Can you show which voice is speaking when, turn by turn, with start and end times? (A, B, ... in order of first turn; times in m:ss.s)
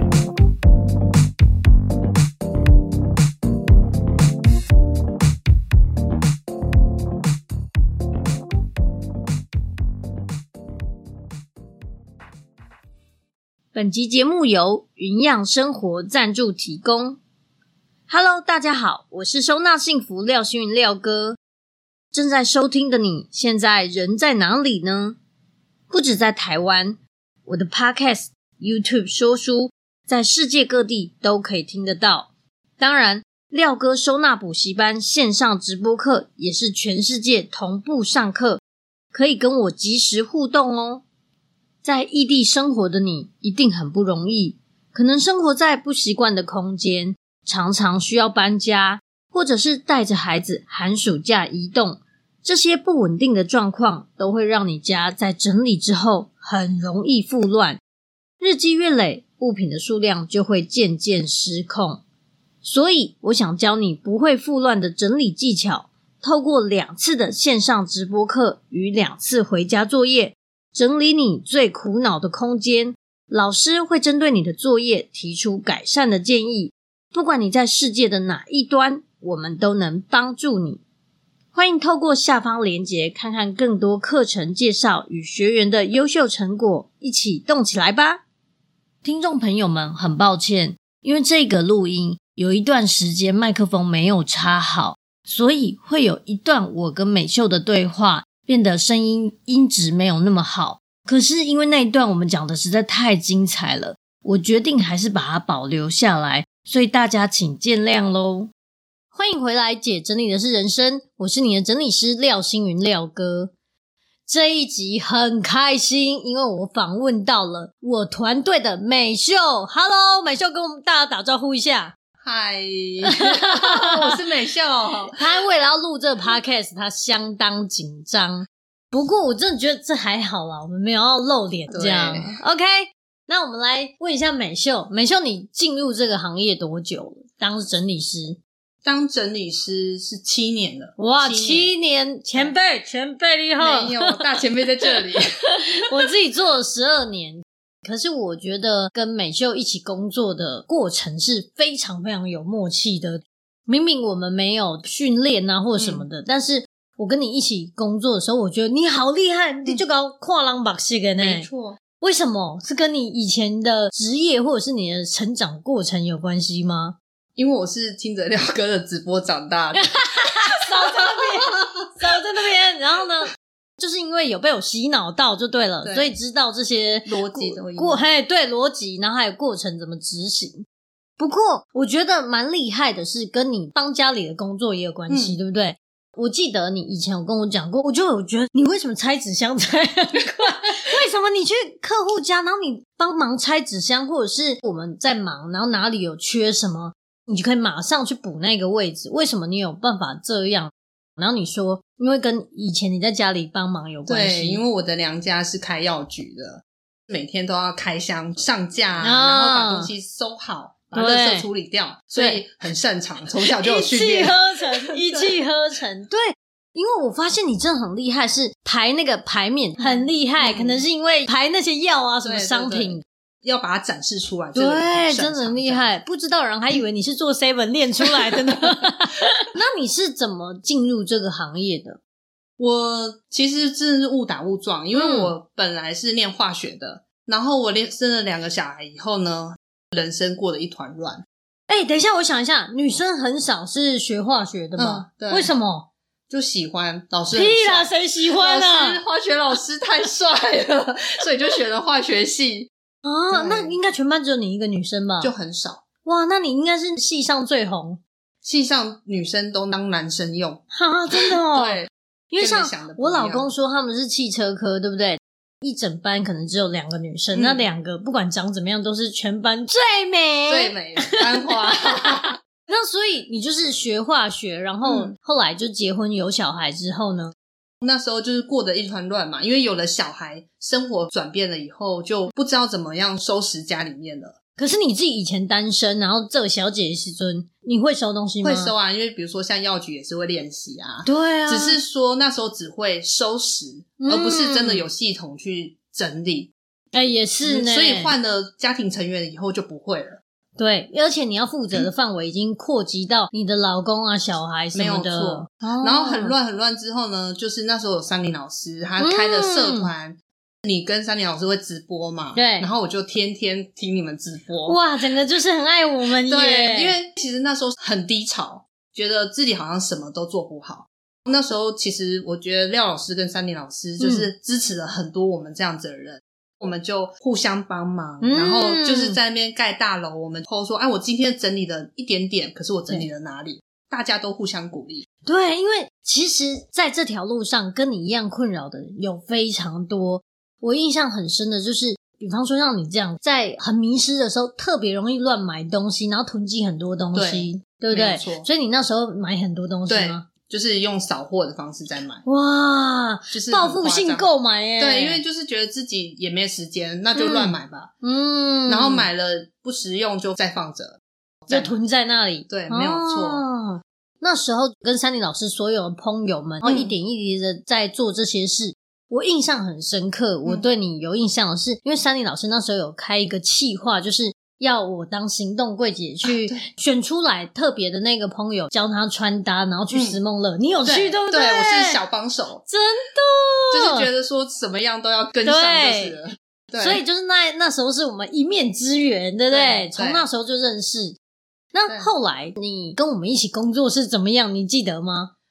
0:13.7-0:17.2 A
0:18.1-0:21.4 A
0:22.1-0:25.2 A
0:25.9-0:38.6 A
0:39.1-0:41.0 A
0:41.8-0:57.8 A
0:58.4-1:02.0 A
1:02.6-1:20.8 A
1:21.5-1:28.2 A
1:29.0-1:48.5 A
1:49.1-1:53.5 A
1:54.3-2:01.9 A
2:02.2-2:05.2 B
2:03.1-2:04.2 A
2:05.2-2:18.4 A
2:11.7-2:12.4 B
2:18.8-2:21.7 B
2:21.0-2:24.3 A
2:23.6-2:26.1 B
2:25.6-2:47.0 A
2:35.8-2:36.0 B
2:41.2-2:41.8 B
2:47.4-2:49.9 B
2:49.7-3:00.6 A
2:50.7-2:51.7 B
2:55.8-2:56.1 B
2:57.0-2:58.0 B
3:01.2-3:24.6 A
3:05.1-3:05.4 B
3:24.0-3:35.4 B
3:29.0-3:29.9 A
3:30.9-3:31.5 A
3:32.2-3:32.4 A
3:33.4-3:43.0 A
3:39.8-3:40.8 B
3:42.2-3:45.9 B
3:44.5-3:52.0 A
3:48.0-3:48.8 B
3:52.6-4:01.2 B
3:54.9-3:55.3 A
4:01.7-4:05.9 A
4:04.8-4:05.5 B
4:06.3-4:12.7 B
4:07.3-4:09.0 A
4:13.0-4:15.3 A
4:13.3-4:13.8 B
4:15.2-4:15.8 B
4:16.0-4:18.0 A
4:18.4-4:20.6 B
4:20.7-4:37.3 A
4:21.1-4:23.5 B
4:27.3-4:27.6 B
4:30.5-4:32.4 B
4:34.8-4:35.1 B
4:37.8-4:44.4 B
4:44.6-4:48.7 A
4:48.4-4:56.5 B
4:51.0-4:51.8 A
4:54.0-4:54.9 A
4:56.9-4:58.1 A
4:57.4-5:00.2 B
5:00.6-5:06.3 A
5:04.7-5:14.8 B
5:09.0-5:09.9 A
5:12.3-5:12.7 A
5:14.6-5:17.0 A
5:16.3-5:35.1 B
5:24.0-5:24.2 A
5:28.2-5:29.2 A
5:35.2-5:50.3 A
5:47.1-5:48.5 B
5:49.9-5:52.2 B
5:52.2-5:55.2 A
5:53.3-5:54.3 B
5:54.8-5:57.9 B
5:57.1-5:59.1 A
5:58.7-6:01.8 B
6:01.5-6:22.0 A
6:02.5-6:03.4 B
6:06.6-6:06.9 B
6:16.2-6:16.6 B
6:19.9-6:20.2 B
6:20.8-6:22.6 B
6:22.7-6:24.1 A
6:23.7-6:27.0 B
6:25.4-6:26.2 A
6:26.8-6:31.2 A
6:29.5-6:30.2 B
6:31.7-6:35.3 A